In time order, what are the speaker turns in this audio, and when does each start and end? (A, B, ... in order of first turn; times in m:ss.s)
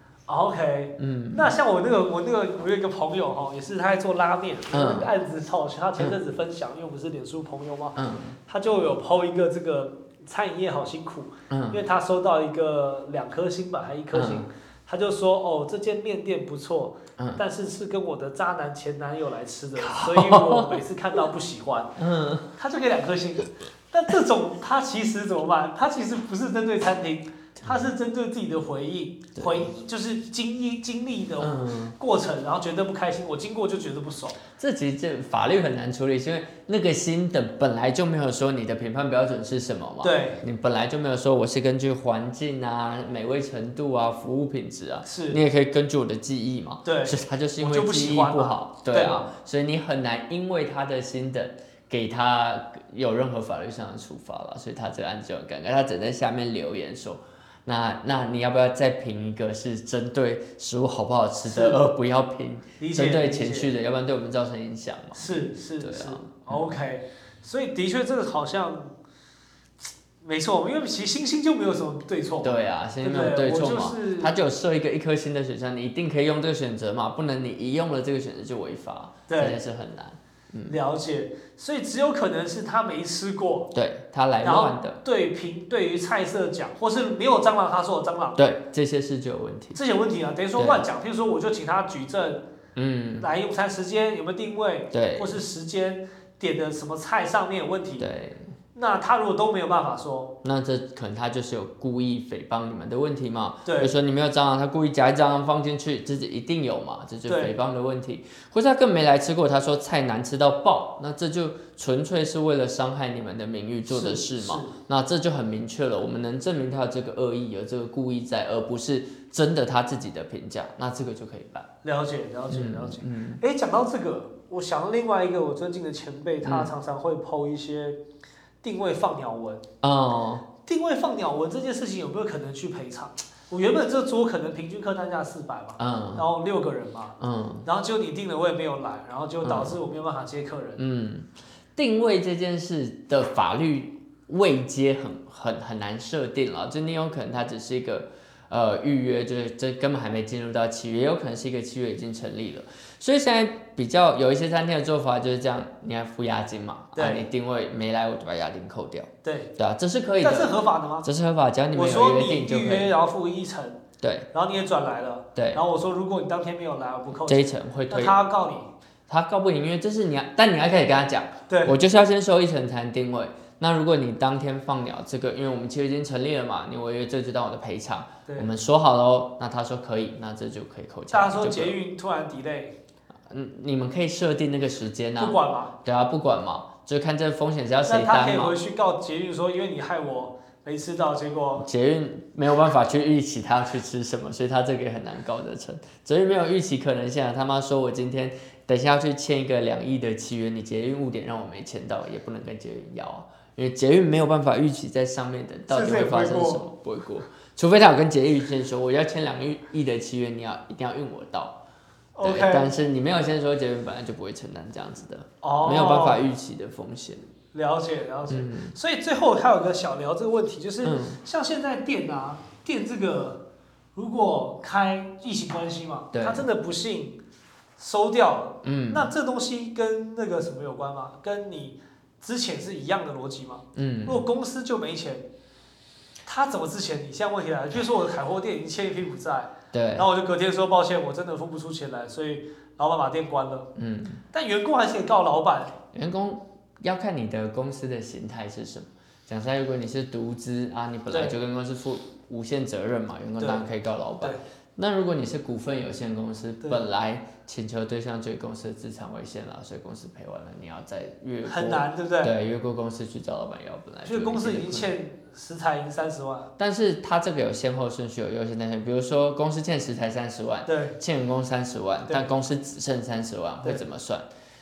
0:00.3-0:22.0 A
0:01.0-0:01.5 B
0:04.7-0:05.1 B
0:08.0-0:08.4 B
0:11.5-0:11.8 B
0:14.1-0:14.5 B
0:19.8-0:20.8 B
0:22.0-0:22.5 B
0:22.6-0:34.4 A
0:27.6-0:27.9 B
0:29.4-0:29.7 B
0:31.4-0:32.0 B
0:34.6-1:06.7 B
0:40.0-0:40.4 A
0:45.0-0:45.4 A
0:46.8-0:49.3 A
1:01.5-1:01.8 A
1:02.8-1:03.7 A
1:05.1-1:09.0 A
1:10.2-1:14.3 A
1:12.4-1:20.8 B
1:19.3-1:19.6 A
1:20.7-1:23.7 A
1:23.7-1:25.0 B
1:24.4-1:28.4 A
1:28.4-1:29.8 B
1:29.7-1:32.4 A
1:30.6-1:30.8 B
1:32.8-1:33.3 B
1:33.2-1:38.1 A
1:34.9-1:35.4 B
1:38.0-1:38.5 B
1:38.7-1:40.3 A
1:40.4-2:01.7 B
1:43.6-1:43.9 A
1:47.3-1:47.6 A
1:53.9-1:54.7 A
2:01.8-2:08.0 A
2:02.5-2:03.4 B
2:06.4-2:06.7 B
2:08.6-2:09.6 A
2:09.8-2:10.5 B
2:10.6-2:20.8 A
2:15.8-2:16.3 B
2:17.2-2:17.7 B
2:19.4-2:19.8 B
2:20.8-2:42.9 B
2:36.9-2:37.2 A
2:39.2-2:39.5 A
2:40.2-2:41.1 A
2:41.7-2:43.8 A
2:44.0-2:44.3 B
2:44.3-2:48.7 A
2:45.4-2:45.6 B
2:47.2-2:48.2 B
2:49.1-3:01.8 B
2:51.5-2:51.8 A
3:01.1-3:02.8 A
3:03.3-3:08.6 B
3:05.2-3:05.7 A
3:07.9-3:11.7 A
3:11.6-3:31.6 B
3:25.7-3:26.6 A
3:32.2-3:32.7 A
3:32.2-3:37.3 B
3:35.4-3:36.2 A
3:37.5-3:43.4 A
3:38.3-3:38.8 B
3:40.8-3:41.2 B
3:44.0-3:47.2 A
3:46.1-3:46.5 B
3:47.8-3:55.3 A
3:48.6-3:49.1 B
3:53.8-3:54.2 B
3:56.3-4:03.7 A
3:59.7-4:00.1 B
4:03.8-4:04.2 B
4:04.3-4:05.7 A
4:05.9-4:24.9 B
4:11.1-4:11.4 A
4:13.4-4:13.6 A
4:21.5-4:22.3 A
4:24.0-4:26.5 A
4:26.6-4:34.3 B
4:30.7-4:31.0 A